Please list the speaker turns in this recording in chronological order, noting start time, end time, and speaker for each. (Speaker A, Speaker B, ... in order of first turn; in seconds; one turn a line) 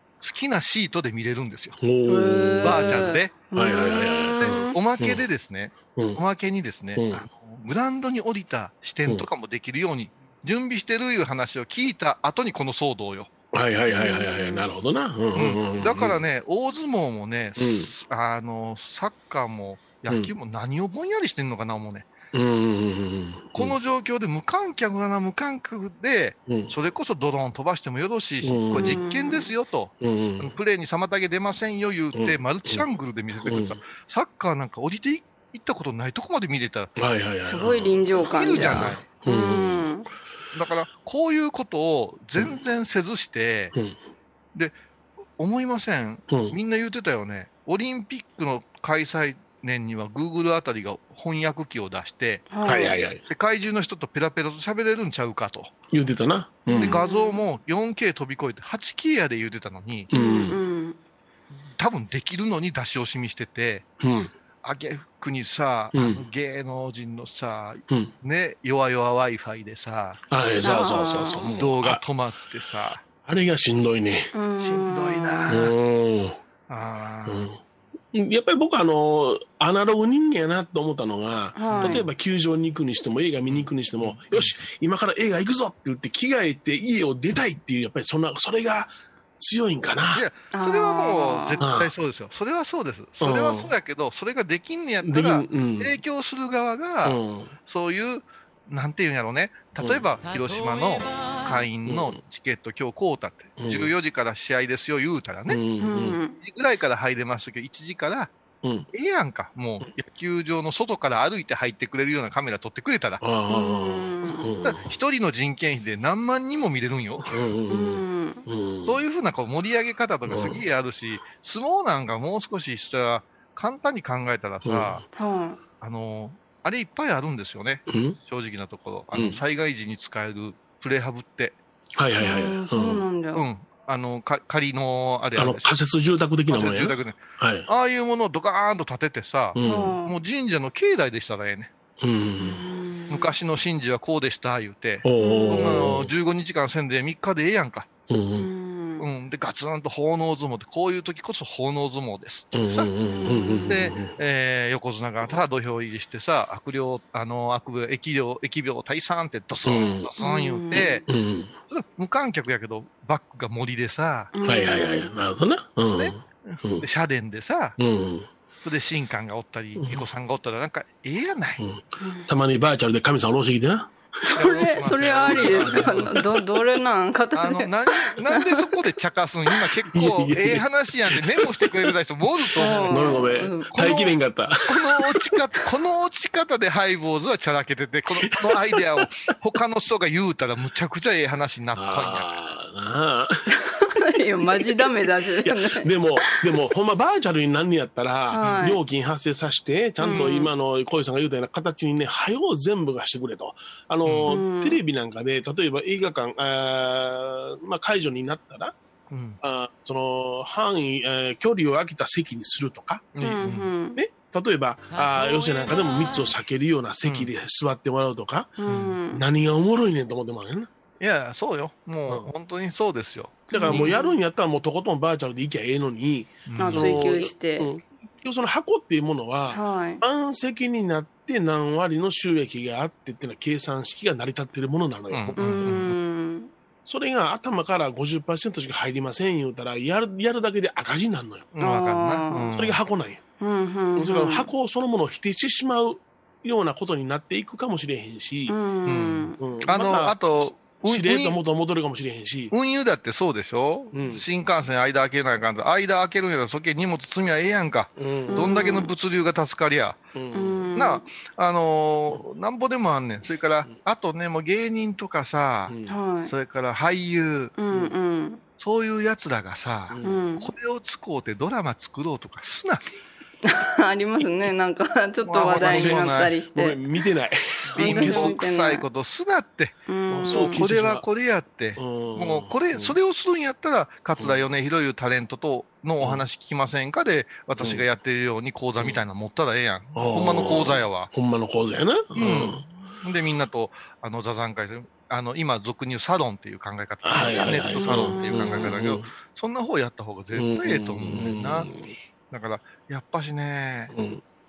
Speaker A: 0.2-1.8
Speaker B: 1.8-5.2
Speaker C: 2.0-4.8
Speaker A: 2.6-3.5
Speaker A: 4.4-13.3
Speaker B: 5.9-6.2
Speaker B: 7.0-7.2
Speaker B: 13.5-16.2
Speaker C: 13.9-14.7
Speaker A: 15.3-22.1
Speaker B: 17.6-17.9
Speaker B: 22.3-23.8
Speaker A: 23.5-36.9
Speaker B: 26.5-26.7
Speaker B: 28.4-29.0
Speaker C: 28.8-29.5
Speaker B: 30.0-30.5
Speaker B: 32.1-32.8
Speaker B: 33.4-33.8
Speaker B: 37.0-39.9
Speaker C: 37.4-40.1
Speaker A: 38.2-39.0
Speaker A: 40.5-43.7
Speaker A: 45.4-52.7
Speaker B: 46.3-46.6
Speaker C: 52.5-53.0
Speaker B: 52.6-53.2
Speaker A: 53.2-55.7
Speaker B: 55.9-57.0
Speaker A: 56.7-60.1
Speaker C: 56.7-57.4
Speaker B: 60.1-60.6
Speaker C: 60.1-61.0
Speaker A: 61.8-63.9
Speaker B: 64.0-64.3
Speaker A: 64.6-70.2
Speaker B: 65.9-66.2
Speaker B: 70.3-72.0
Speaker C: 70.6-71.5
Speaker A: 71.5-73.0
Speaker B: 73.2-74.3
Speaker C: 74.3-75.6
Speaker A: 74.6-75.7
Speaker B: 75.5-76.4
Speaker A: 76.7-77.5
Speaker B: 77.3-77.6
Speaker B: 78.1-90.2
Speaker C: 81.5-82.0
Speaker A: 81.7-82.0
Speaker A: 83.5-84.5
Speaker A: 90.1-105.6
Speaker C: 90.5-91.6
Speaker B: 91.6-91.9
Speaker B: 93.2-93.7
Speaker B: 95.0-95.9
Speaker B: 97.0-97.5
Speaker B: 101.8-102.2
Speaker B: 103.6-103.9
Speaker B: 105.5-106.2
Speaker C: 105.8-106.4
Speaker A: 106.4-108.3
Speaker A: 108.9-113.2
Speaker B: 113.2-114.9
Speaker C: 113.5-114.5
Speaker A: 114.6-117.4
Speaker B: 117.3-119.0
Speaker C: 117.7-118.5
Speaker A: 118.8-125.0
Speaker B: 120.3-120.6
Speaker B: 124.6-125.0
Speaker C: 125.2-125.6
Speaker A: 125.8-131.6
Speaker B: 127.9-128.2
Speaker B: 129.1-129.4
Speaker B: 132.0-133.0
Speaker C: 132.2-133.4
Speaker A: 133.3-135.7
Speaker B: 135.3-137.7
Speaker A: 136.5-141.7
Speaker B: 139.5-139.9
Speaker C: 139.6-140.2
Speaker B: 142.0-142.6
Speaker C: 142.4-143.3
Speaker A: 143.1-147.9
Speaker B: 145.0-146.1
Speaker C: 145.2-145.7
Speaker B: 148.1-148.5
Speaker C: 148.4-149.1
Speaker A: 149.0-152.9
Speaker B: 152.5-154.1
Speaker C: 153.2-153.8
Speaker A: 153.7-161.0
Speaker B: 159.7-160.1
Speaker C: 160.2-161.0
Speaker B: 161.1-161.6
Speaker A: 161.7-164.3
Speaker C: 164.3-165.1
Speaker B: 164.4-166.8
Speaker A: 165.9-167.8
Speaker B: 167.8-168.3
Speaker A: 168.6-171.6
Speaker B: 169.8-170.0
Speaker B: 171.6-176.3
Speaker C: 172.0-172.3
Speaker A: 174.3-176.2
Speaker C: 174.3-178.7
Speaker A: 177.3-192.3
Speaker B: 179.8-181.9
Speaker B: 182.4-185.4
Speaker C: 182.6-183.7
Speaker B: 188.2-189.0
Speaker B: 191.8-193.5
Speaker C: 193.8-196.4
Speaker B: 194.6-194.9
Speaker B: 195.4-208.7
Speaker C: 198.3-198.8
Speaker C: 200.0-200.5
Speaker A: 204.0-204.4
Speaker C: 204.3-204.8
Speaker A: 209.1-209.4
Speaker B: 209.4-213.2
Speaker A: 213.1-213.7
Speaker C: 213.2-214.0
Speaker B: 213.9-218.6
Speaker A: 217.0-217.3
Speaker C: 218.6-219.2
Speaker A: 218.7-219.0
Speaker B: 219.1-220.7
Speaker A: 221.0-223.9
Speaker C: 223.5-224.2
Speaker B: 223.5-235.8
Speaker A: 226.4-227.0
Speaker C: 226.6-227.7
Speaker C: 229.5-230.0
Speaker A: 235.1-235.9
Speaker C: 235.4-236.5
Speaker B: 236.8-241.5
Speaker A: 241.5-242.8
Speaker C: 241.6-242.5
Speaker B: 242.5-243.2
Speaker C: 243.4-244.5
Speaker B: 243.9-248.6
Speaker C: 248.5-249.4
Speaker A: 248.9-251.4
Speaker B: 249.4-250.1
Speaker B: 250.8-252.5
Speaker A: 252.5-260.0
Speaker B: 253.9-254.2
Speaker B: 258.0-258.7
Speaker C: 258.3-258.9
Speaker B: 260.1-260.7
Speaker C: 260.3-261.1
Speaker A: 260.7-267.6
Speaker B: 265.7-265.9
Speaker C: 265.9-266.3
Speaker C: 267.6-268.4
Speaker A: 268.6-272.8
Speaker B: 269.9-270.2
Speaker C: 270.0-270.5
Speaker C: 273.4-276.8
Speaker A: 275.2-276.4
Speaker B: 275.6-278.4
Speaker A: 277.7-291.1
Speaker C: 277.8-278.8
Speaker C: 279.9-280.6
Speaker B: 280.1-281.0
Speaker B: 281.8-282.9
Speaker B: 284.2-284.4
Speaker B: 287.6-287.8
Speaker B: 289.9-292.6
Speaker A: 292.1-301.7
Speaker B: 297.0-299.1
Speaker C: 297.7-298.7
Speaker B: 300.3-301.9
Speaker A: 302.3-303.9
Speaker B: 303.9-304.2